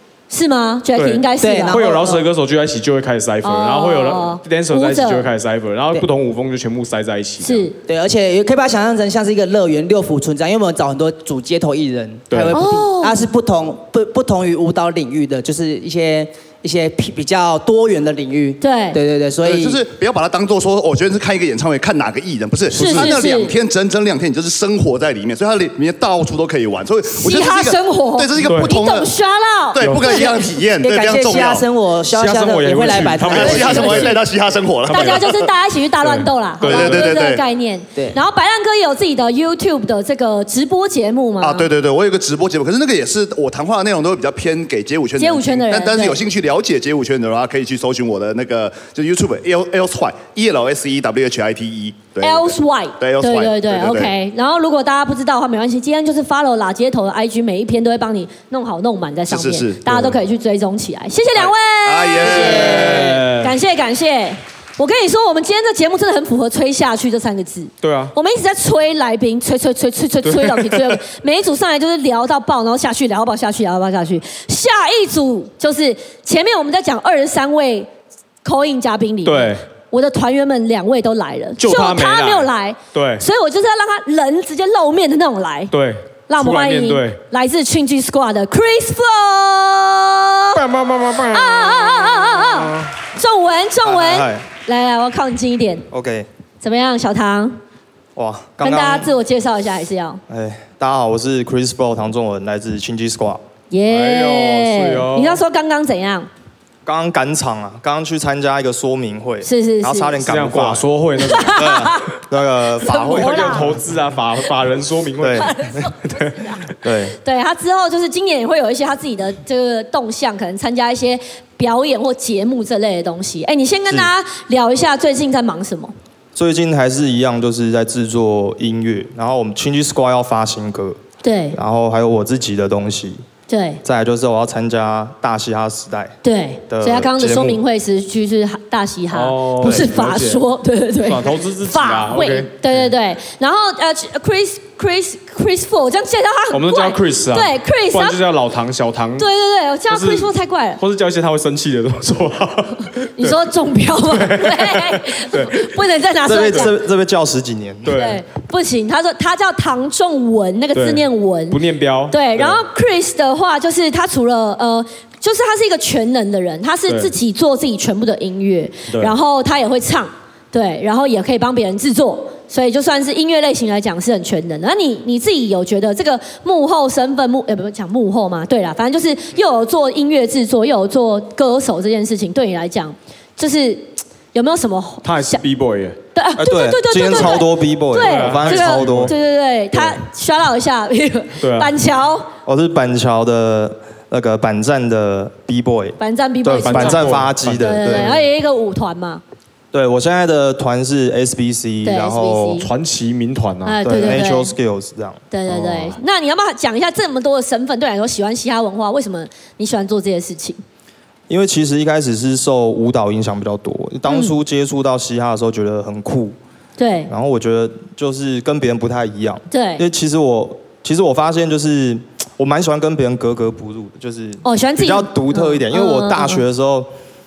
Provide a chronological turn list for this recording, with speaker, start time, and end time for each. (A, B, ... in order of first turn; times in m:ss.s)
0:00.3-0:02.2 A
0:01.0-0:07.7 B
0:01.4-0:02.3 C
0:03.4-0:05.3 A
0:07.4-0:07.8 A
0:07.9-0:19.8 C
0:12.3-0:12.6 B
0:12.5-0:13.2 A
0:18.6-0:19.0 A
0:19.4-0:29.1 D
0:22.7-0:23.2 B
0:22.7-0:23.6 A
0:27.1-0:30.4 A
0:28.4-0:28.8 B
0:29.7-0:31.6 D
0:29.8-0:30.2 B
0:30.8-0:34.1 C
0:32.1-0:34.2 B
0:33.2-0:35.4 D
0:33.7-0:34.1 A
0:34.9-0:35.3 B
0:34.9-0:41.7 A
0:36.0-0:37.1 B
0:36.6-0:37.4 D
0:41.4-0:54.1 D
0:45.2-0:46.2 A
0:52.2-1:17.9 A
0:59.3-0:59.8 D
0:59.9-1:00.2 B
1:01.4-1:03.1 D
1:02.2-1:03.5 B
1:07.8-1:08.1 B
1:10.2-1:11.0 B
1:18.4-1:25.7 A
1:19.2-1:19.6 B
1:21.6-1:23.2 B
1:25.7-1:27.2 B
1:26.3-1:30.6 A
1:30.6-1:32.9 B
1:31.3-1:35.8 A
1:33.8-1:34.4 E
1:35.9-1:36.3 E
1:36.6-1:37.6 A
1:38.2-1:39.1 E
1:38.6-1:40.2 A
1:40.3-1:43.4 E
1:43.7-1:46.3 A
1:43.9-1:45.4 B
1:46.8-1:50.9 E
1:49.4-1:50.2 A
1:50.2-1:51.9 B
1:51.2-1:52.1 A
1:51.6-1:53.8 E
1:52.8-1:53.7 A
1:52.9-1:55.5 B
1:55.2-1:55.5 E
1:55.3-1:56.6 A
1:56.1-1:56.4 B
1:56.8-1:57.2 E
1:57.2-2:05.9 A
2:06.4-2:11.0 E
2:11.2-2:11.6 A
2:11.6-2:13.2 E
2:13.5-2:13.8 A
2:13.8-2:16.1 E
2:16.2-2:28.2 A
2:16.7-2:17.6 E
2:19.1-2:20.4 B
2:21.0-2:22.9 B
2:26.5-2:29.3 B
2:29.2-2:30.8 A
2:29.9-2:33.4 B
2:33.2-2:36.8 A
2:34.1-2:35.7 B
2:36.3-2:37.9 E
2:36.4-2:36.7 B
2:37.8-2:38.2 B
2:37.9-3:05.4 A
2:40.7-2:42.6 B
2:48.9-2:49.2 B
3:05.0-3:06.0 B
3:06.1-3:12.3 A
3:06.4-3:09.1 E
3:07.1-3:07.4 B
3:07.9-3:09.2 B
3:11.4-3:11.7 B
3:12.5-3:18.2 E
3:16.0-3:19.2 A
3:16.5-3:18.3 B
3:19.7-3:22.6 E
3:21.8-3:22.7 A
3:22.6-3:24.2 B
3:23.6-3:24.6 A
3:23.8-3:25.3 E
3:25.3-3:30.6 A
3:25.5-3:26.0 B
3:31.3-3:36.4 E
3:34.1-3:34.4 A
3:36.8-3:37.1 A
3:37.1-3:46.9 E
3:39.5-3:39.8 A
3:44.4-3:46.4 A